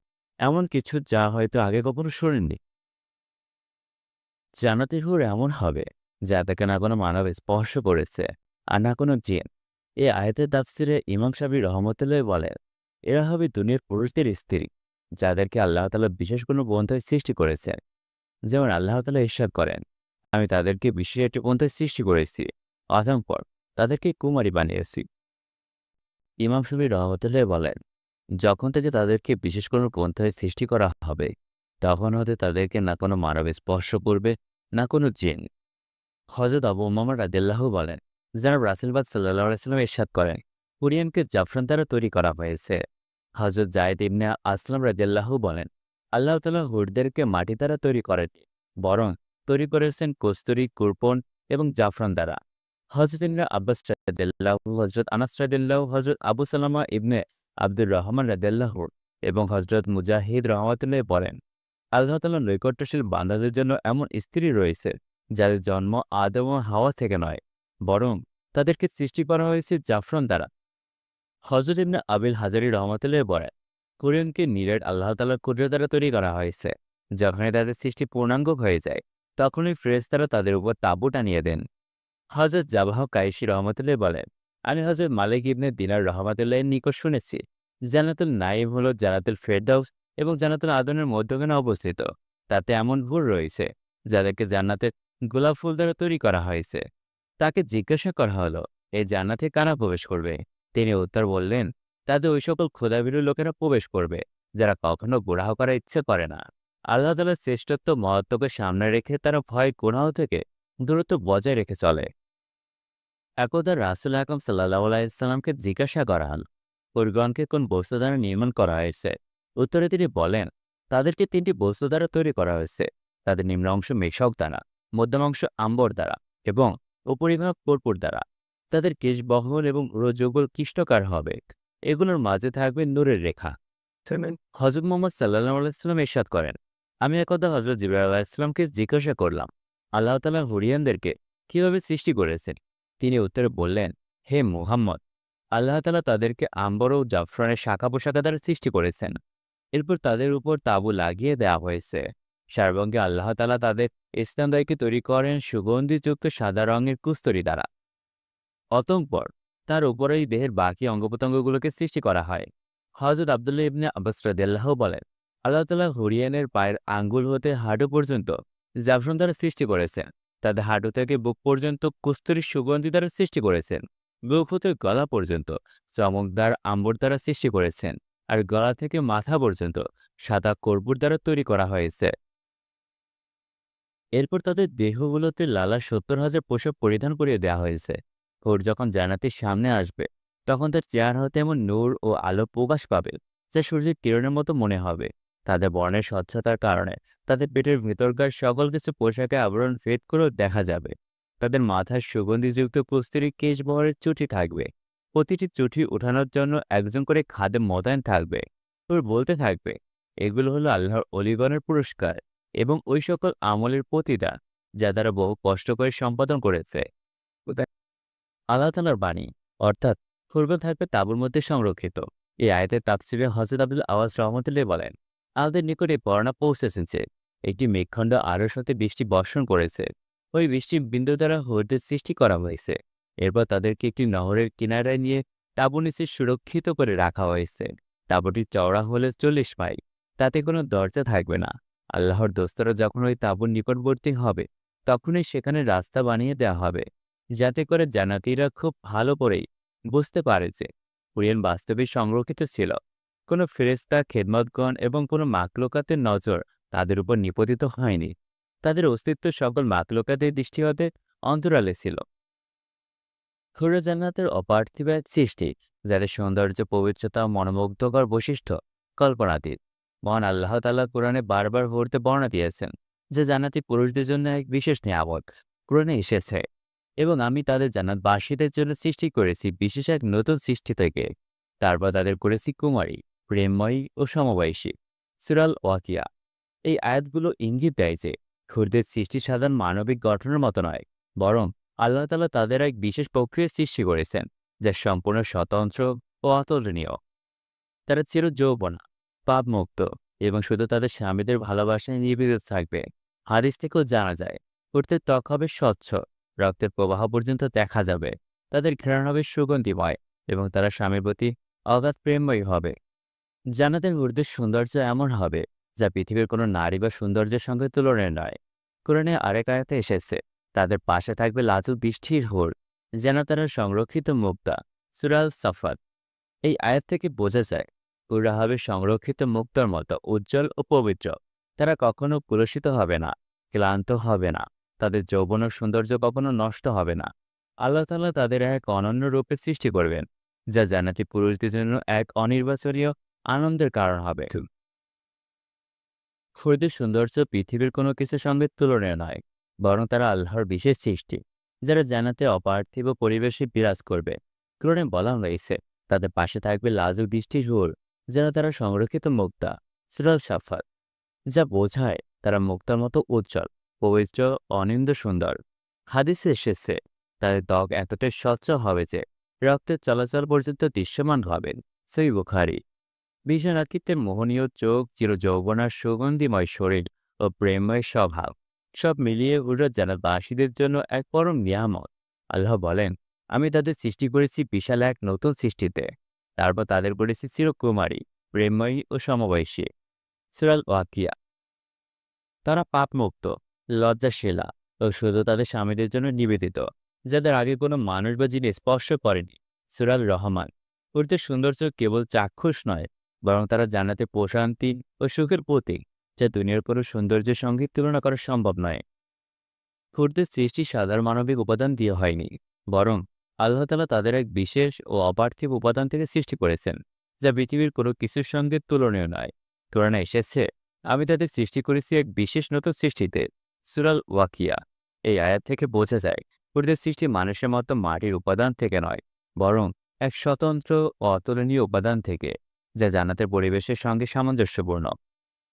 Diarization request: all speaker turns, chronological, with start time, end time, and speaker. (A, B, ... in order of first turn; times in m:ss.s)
0:00.4-0:02.6 A
0:04.6-0:09.5 A
0:10.0-0:12.5 A
0:13.1-0:14.7 A
0:15.2-0:17.8 A
0:18.5-0:19.8 A
0:20.3-0:25.0 A
0:26.4-0:27.8 A
0:28.4-0:35.4 A
0:36.3-0:42.8 A
0:43.4-0:52.4 A
0:52.9-1:01.4 A
1:02.0-1:10.5 A
1:11.5-1:21.6 A
1:22.4-1:27.4 A
1:27.9-1:36.8 A
1:37.4-1:52.1 A
1:53.4-1:56.4 A
1:57.0-2:13.5 A
2:14.2-2:25.0 A
2:25.5-2:29.2 A
2:29.7-2:37.6 A
2:38.7-2:42.5 A
2:43.0-3:02.1 A
3:04.2-3:36.8 A
3:38.5-4:06.8 A
4:07.4-4:12.8 A
4:13.3-4:18.1 A
4:18.6-4:22.0 A
4:23.6-4:36.4 A
4:37.0-4:41.1 A
4:41.6-4:46.0 A
4:46.7-4:57.0 A
4:57.9-5:12.7 A
5:13.6-5:25.8 A
5:26.4-5:37.1 A
5:37.6-5:44.4 A
5:46.4-6:00.6 A
6:01.3-6:05.4 A
6:05.9-6:12.6 A
6:13.3-6:25.9 A
6:26.4-6:29.7 A
6:30.3-6:31.1 A
6:32.4-6:48.8 A
6:49.9-7:14.9 A